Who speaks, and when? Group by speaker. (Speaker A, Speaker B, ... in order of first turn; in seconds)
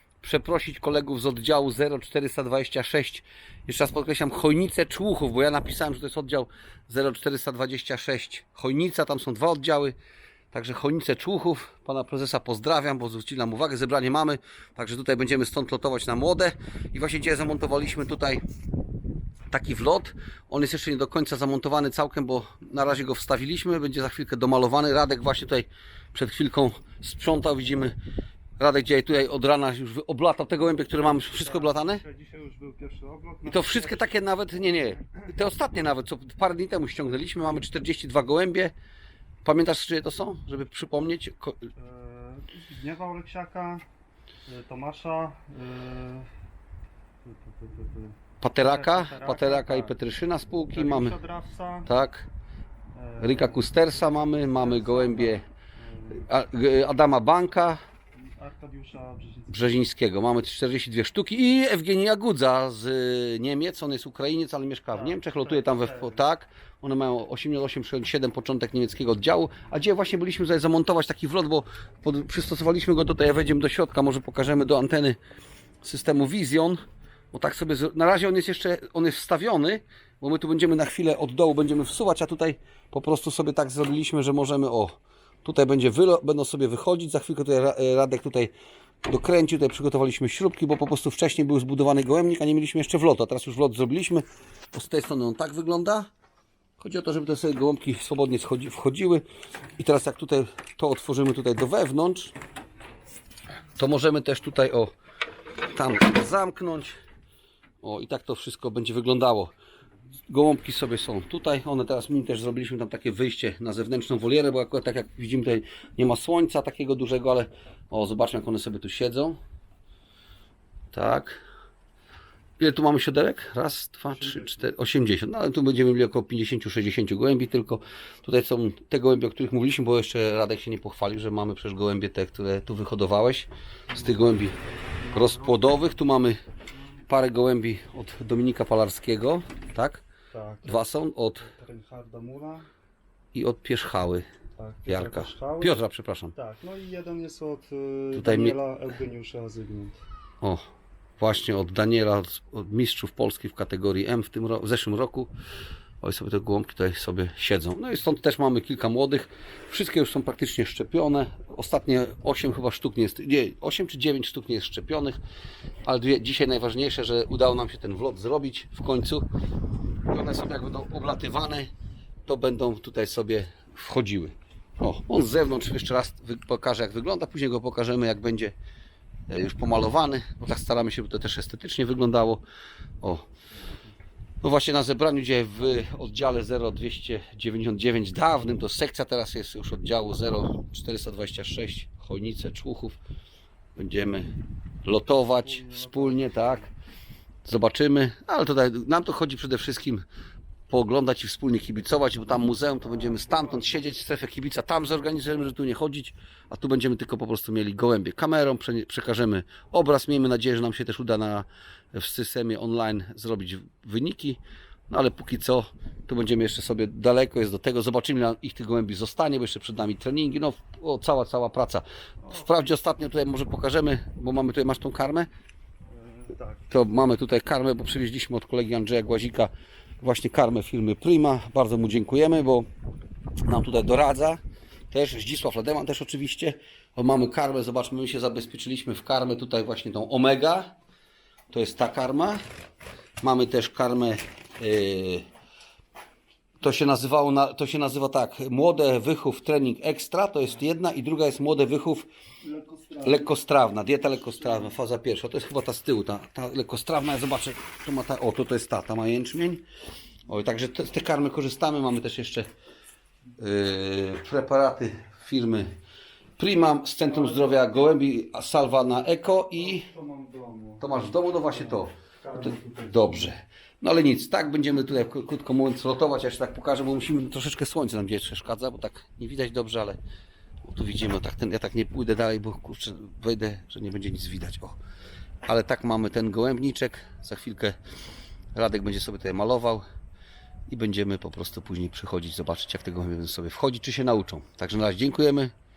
Speaker A: 0.2-9.9, 10.5-18.4, 19.5-27.9, 28.6-32.0, 33.5-38.7, 39.5-41.7, 48.4-51.2, 51.9-52.3, 53.2-55.4, 56.2-57.8, 59.5-75.2, 75.8-76.8, 77.3-88.5, 89.0-96.1, 96.8-99.2, 99.8-102.3, 103.8-104.9, 105.7-107.0, 107.8-109.5, 110.3-119.4, 120.9-121.4, 122.6-134.6, 135.1-136.4, 137.1-140.0, 140.7-141.5, 143.3-144.2, 144.9-146.3, 148.1-148.6, 151.2-155.3, 156.0-165.2, 165.8-169.3, 170.1-171.7, 172.3-178.6, 179.3-182.4, 184.4-193.0, 193.8-194.3, 194.8-196.7, 197.4-200.1, 200.7-225.3, 226.7-232.7, 233.4-240.8, 241.5-242.4, 243.2-245.2, 246.6-252.1, 253.0-259.6, 260.3-262.5, 263.4-265.7, 266.4-269.9, 270.8-280.0, 280.6-284.8, 285.4-287.8, 288.6-289.8, 290.7-295.5
Speaker B: 31.0-34.2, 34.8-35.0, 41.8-43.9, 44.5-46.3, 47.2-49.9, 50.7-51.9, 53.0-56.2, 58.2-59.7, 64.9-66.2, 133.9-135.6, 140.3-140.8, 141.4-142.7, 144.6-145.8, 146.3-150.0, 195.4-196.7, 226.0-226.7, 252.6-253.1, 267.1-267.6, 269.6-270.9, 271.5-273.3